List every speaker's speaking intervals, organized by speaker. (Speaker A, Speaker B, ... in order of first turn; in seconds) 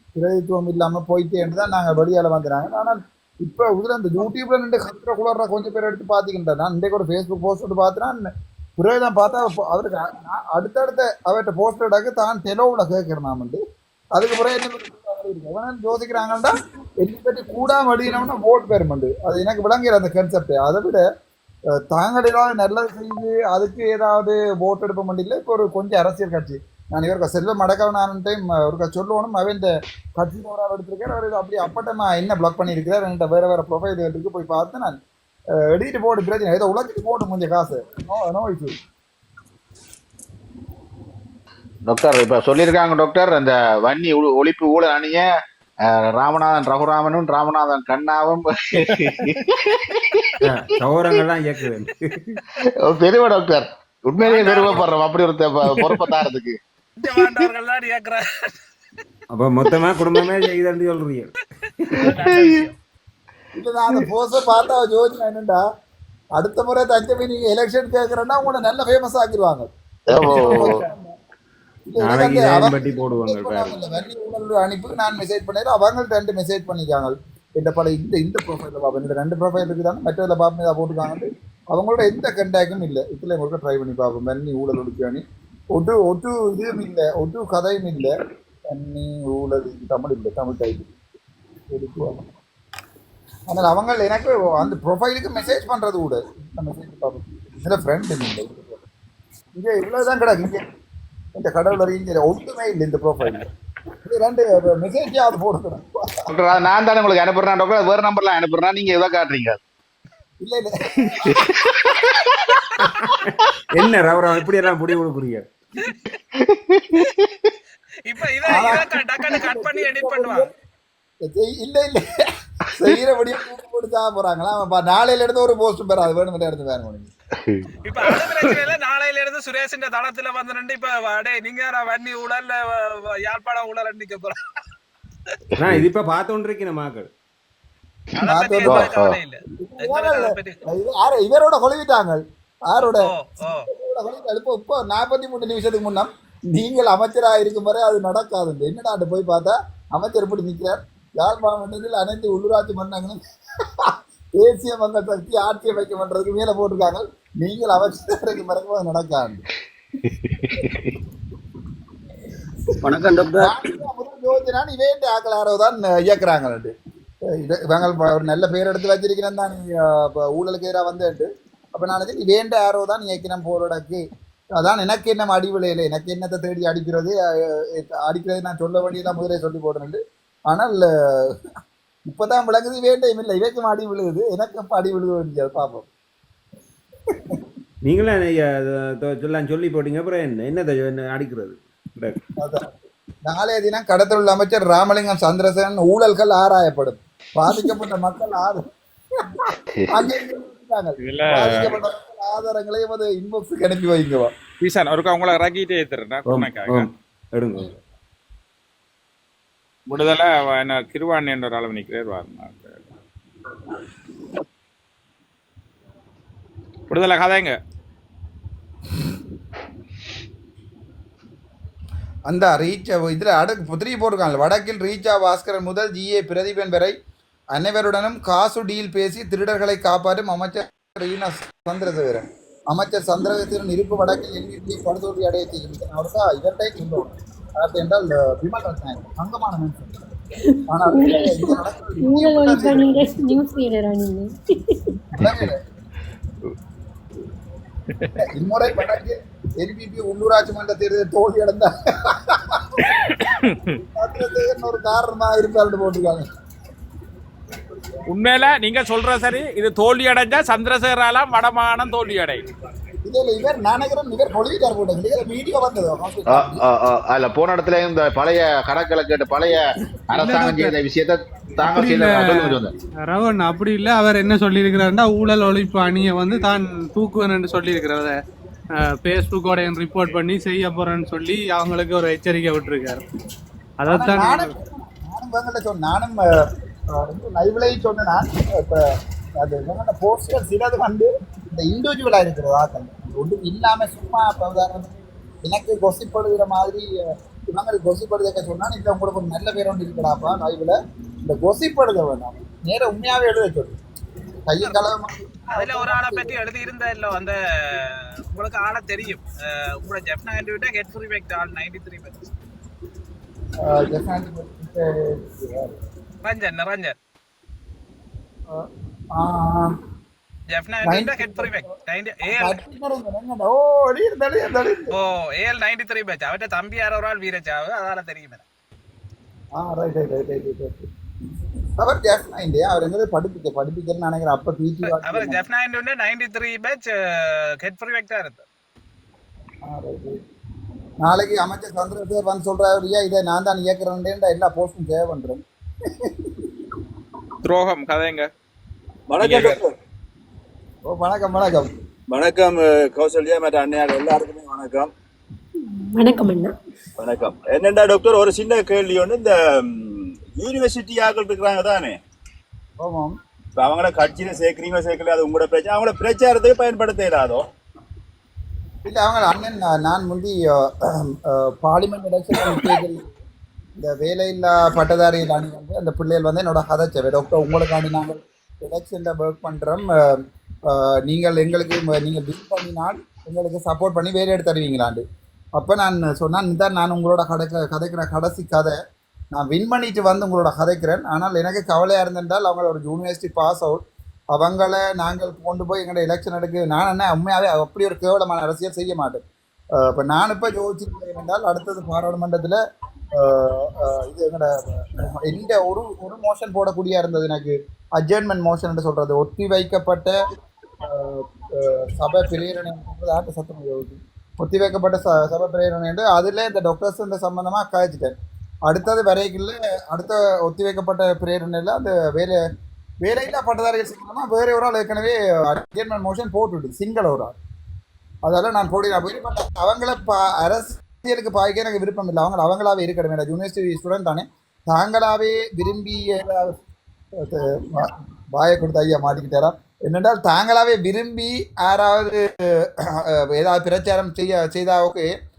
Speaker A: 0.2-13.6, 14.2-21.1, 21.8-35.0, 35.6-38.8, 63.5-65.6, 66.4-71.1, 71.9-88.1, 88.7-90.9, 91.7-92.3, 93.5-98.8, 99.6-100.7, 101.4-103.5, 104.0-106.2, 110.4-111.6, 118.5-120.5, 121.2-122.0, 122.6-127.1, 138.2-138.9, 139.6-159.4, 162.9-166.7, 167.3-174.0, 174.6-181.4, 182.1-185.9, 187.1-187.4, 192.4-198.6, 199.2-204.3, 222.3-227.0, 227.5-239.9, 240.7-243.2, 245.1-245.6, 248.2-253.2, 253.9-256.3, 263.0-266.6, 283.9-286.3, 286.9-296.9, 297.5-303.8, 304.5-306.4, 313.6-315.8, 318.5-319.7, 320.8-321.7, 322.3-325.0, 329.6-330.9, 331.8-335.4, 339.6-340.2, 341.0-346.5, 350.9-351.7, 362.8-363.1, 368.9-373.1, 373.8-385.0, 385.6-388.8, 389.3-393.8, 394.3-399.2, 399.8-402.6, 403.1-410.2, 410.8-418.1, 418.6-422.4, 423.0-427.4, 428.2-436.6, 437.1-445.1
Speaker B: 41.9-45.3, 45.9-50.7, 52.6-56.6, 62.0-62.6, 70.1-70.8, 106.3-109.6, 111.2-112.6, 116.4-117.5, 127.4-128.1, 135.6-135.9, 138.6-139.2, 160.1-160.9, 199.7-200.0, 266.3-272.7
Speaker C: 48.9-49.2, 201.0-201.8, 204.6-206.9, 209.9-212.8, 216.9-217.6, 252.8-253.8, 258.1-262.4, 347.4-348.3, 349.2-349.6
Speaker D: 50.4-52.4, 59.3-61.3, 72.0-73.7, 113.0-115.5, 135.6-137.1, 163.0-163.5, 187.8-192.2, 206.2-207.8
Speaker E: 54.2-54.9, 57.0-58.6, 62.0-62.8, 118.0-120.5, 127.8-134.6, 138.2-140.6, 142.8-143.7, 305.5-312.2, 316.2-316.9, 320.5-322.6, 324.9-328.4, 334.9-338.4
Speaker F: 240.5-245.0, 355.6-356.5
Speaker G: 270.1-270.8, 271.6-278.1, 278.8-283.0, 283.8-284.5
Speaker H: 349.1-349.7, 352.1-354.9, 357.0-362.0, 363.6-367.4